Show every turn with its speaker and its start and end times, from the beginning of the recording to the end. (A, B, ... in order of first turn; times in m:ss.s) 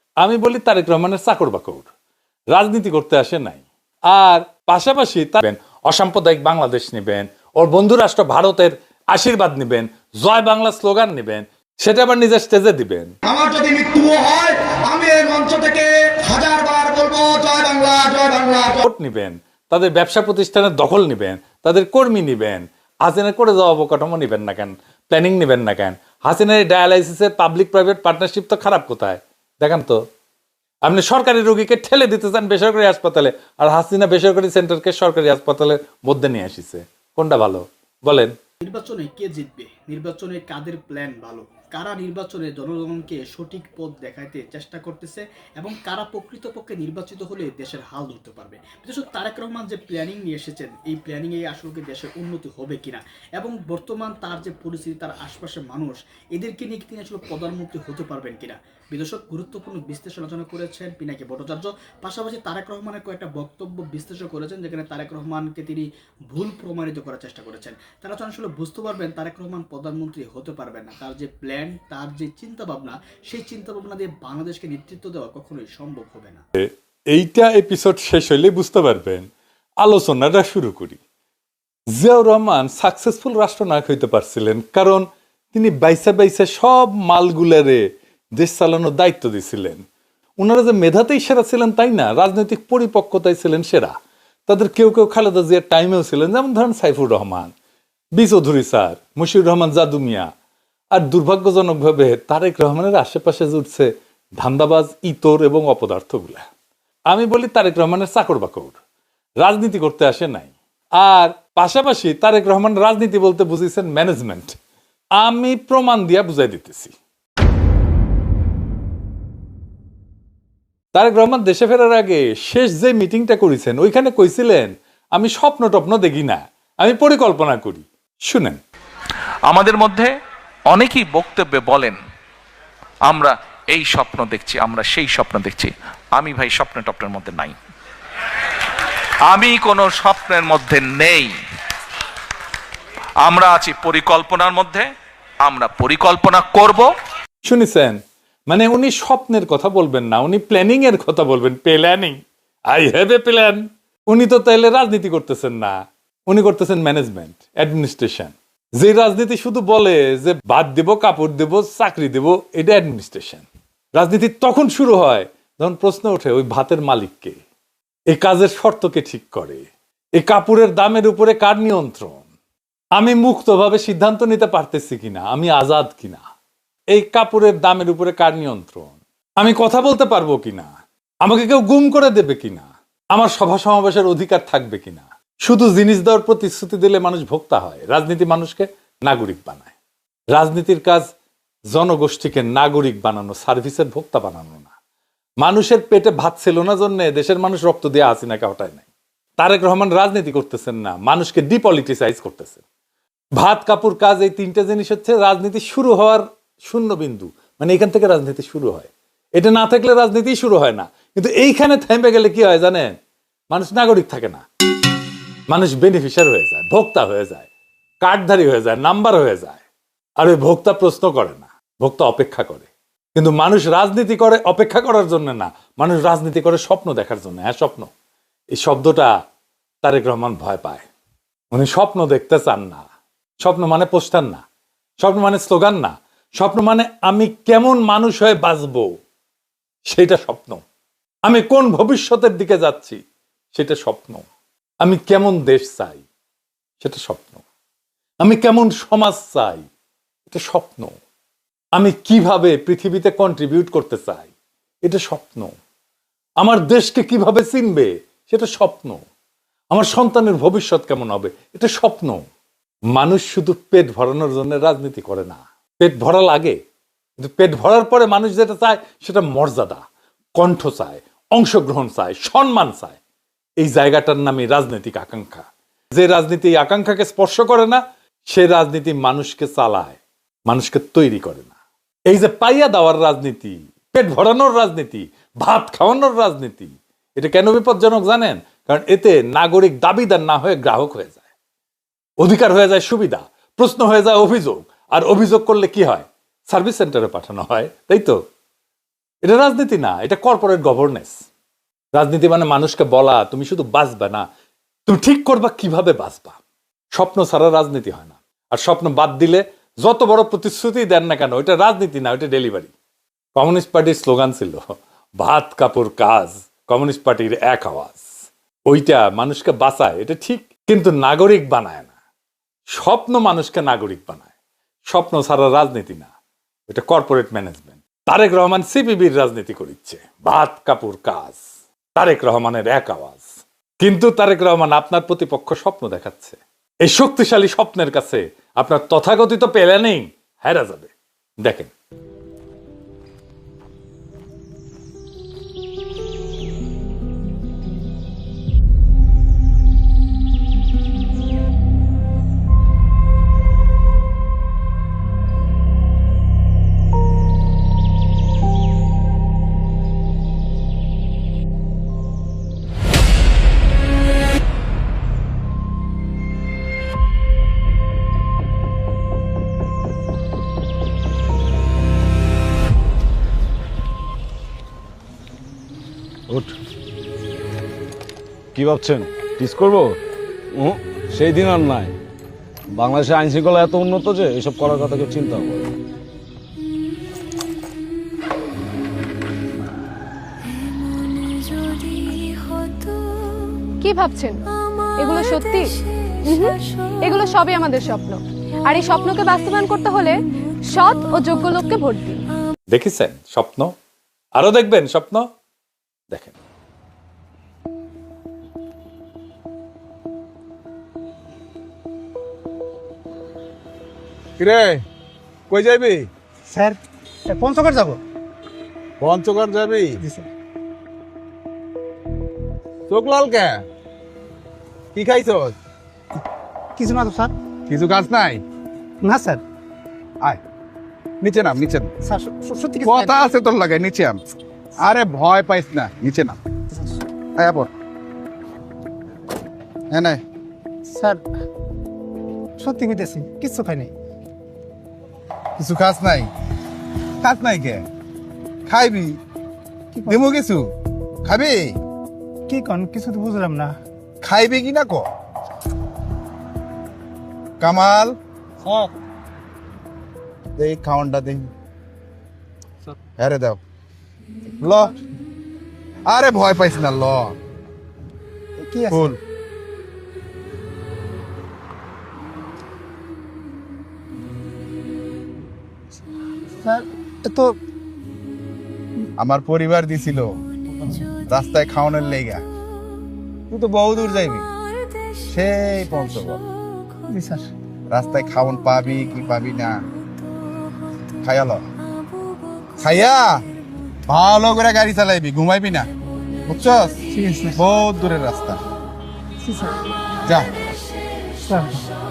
0:00.2-0:01.9 A
0:02.5-0:13.1 A
0:13.2-0:18.8 B
0:18.8-0:30.0 A
0:30.8-0:38.4 A
0:38.6-1:16.4 C
1:16.6-1:19.3 A
1:19.8-1:21.0 A
1:21.9-1:29.8 A
1:30.4-1:34.0 A
1:34.5-1:37.5 A
1:38.2-1:40.3 A
1:40.9-1:46.4 A
1:47.1-1:48.8 A
1:49.4-1:54.6 A
1:55.2-1:56.9 A
2:00.9-2:08.6 A
2:09.4-2:10.1 D
2:10.7-2:12.0 D
2:13.1-2:17.6 D
2:19.2-2:21.4 D
2:23.2-2:24.9 D
2:25.4-2:26.9 D
2:27.4-2:32.2 A
2:32.7-2:47.4 A
2:48.1-2:52.2 A
2:53.0-2:56.2 A
2:56.9-3:00.7 A
3:01.2-3:09.7 A
3:10.3-3:11.1 A
3:11.7-3:14.7 A
3:15.4-3:18.8 A
3:19.4-3:22.6 A
3:23.4-3:32.9 A
3:33.5-3:34.4 A
3:35.5-3:37.5 A
3:38.0-3:39.6 A
3:40.2-3:47.9 A
3:48.5-3:49.1 A
3:49.8-3:50.8 A
3:51.5-3:52.8 A
3:53.4-3:54.4 A
3:55.0-3:59.0 A
3:59.9-4:00.6 A
4:01.2-4:03.0 A
4:03.5-4:04.2 A
4:04.8-4:06.0 A
4:06.8-4:07.4 A
4:08.2-4:09.6 A
4:10.3-4:11.0 A
4:11.7-4:14.3 A
4:14.8-4:15.5 A
4:16.4-4:19.0 A
4:19.7-4:22.2 A
4:22.9-4:26.6 A
4:27.2-4:29.8 A
4:30.4-4:33.0 A
4:33.6-4:41.5 A
4:42.1-4:51.2 A
4:52.2-4:58.2 A
4:59.2-5:01.2 A
5:01.9-5:04.3 A
5:04.9-5:06.4 A
5:06.9-5:12.7 A
5:13.3-5:18.1 A
5:18.7-5:21.9 A
5:22.7-5:24.3 A
5:24.9-5:26.1 A
5:26.7-5:31.4 A
5:32.0-5:33.2 A
5:33.8-5:40.9 A
5:41.4-5:41.7 A
6:16.3-6:16.5 E
6:18.5-6:20.0 E
6:20.5-6:21.9 E
6:22.7-6:25.7 E
6:33.8-6:34.4 F
6:35.0-6:35.7 F
6:36.2-6:40.2 F
6:40.7-6:42.3 F
6:42.7-6:43.7 A
6:44.3-6:45.3 A
6:46.1-6:46.4 A
6:54.4-6:54.8 G
6:55.5-6:56.1 G
6:56.5-6:58.0 H
6:59.0-7:00.0 G
7:00.0-7:00.3 H
7:02.9-7:03.6 G
7:04.9-7:05.6 G
7:06.8-7:07.3 H
7:07.7-7:08.4 G
7:09.0-7:09.4 H
7:11.2-7:11.9 G
7:12.0-7:13.2 H
7:12.8-7:14.2 G
7:14.8-7:16.4 G
7:17.3-7:17.7 G
7:19.9-7:20.2 G
7:20.9-7:21.2 H
7:22.6-7:23.9 H
7:25.6-7:26.3 G
7:27.2-7:27.8 G
7:28.7-7:29.2 G
7:30.0-7:30.7 G
7:31.2-7:31.8 G
7:32.5-7:33.8 H
7:34.2-7:35.1 G
7:37.6-7:38.2 G
7:38.6-7:38.9 H
7:40.6-7:41.5 G
7:43.2-7:43.6 G
7:44.6-7:44.9 G
7:46.1-7:47.4 G
7:48.6-7:49.1 H
7:48.9-7:49.2 G
7:56.6-7:57.5 H
7:59.2-8:00.3 G
8:01.2-8:02.4 G
8:03.5-8:04.5 G
8:05.3-8:06.4 G
8:07.1-8:07.5 H
8:07.9-8:09.8 G
8:11.2-8:11.6 G
8:12.8-8:13.4 G
8:14.1-8:15.9 G
8:16.4-8:18.6 G
8:20.2-8:20.5 G
8:21.5-8:21.8 H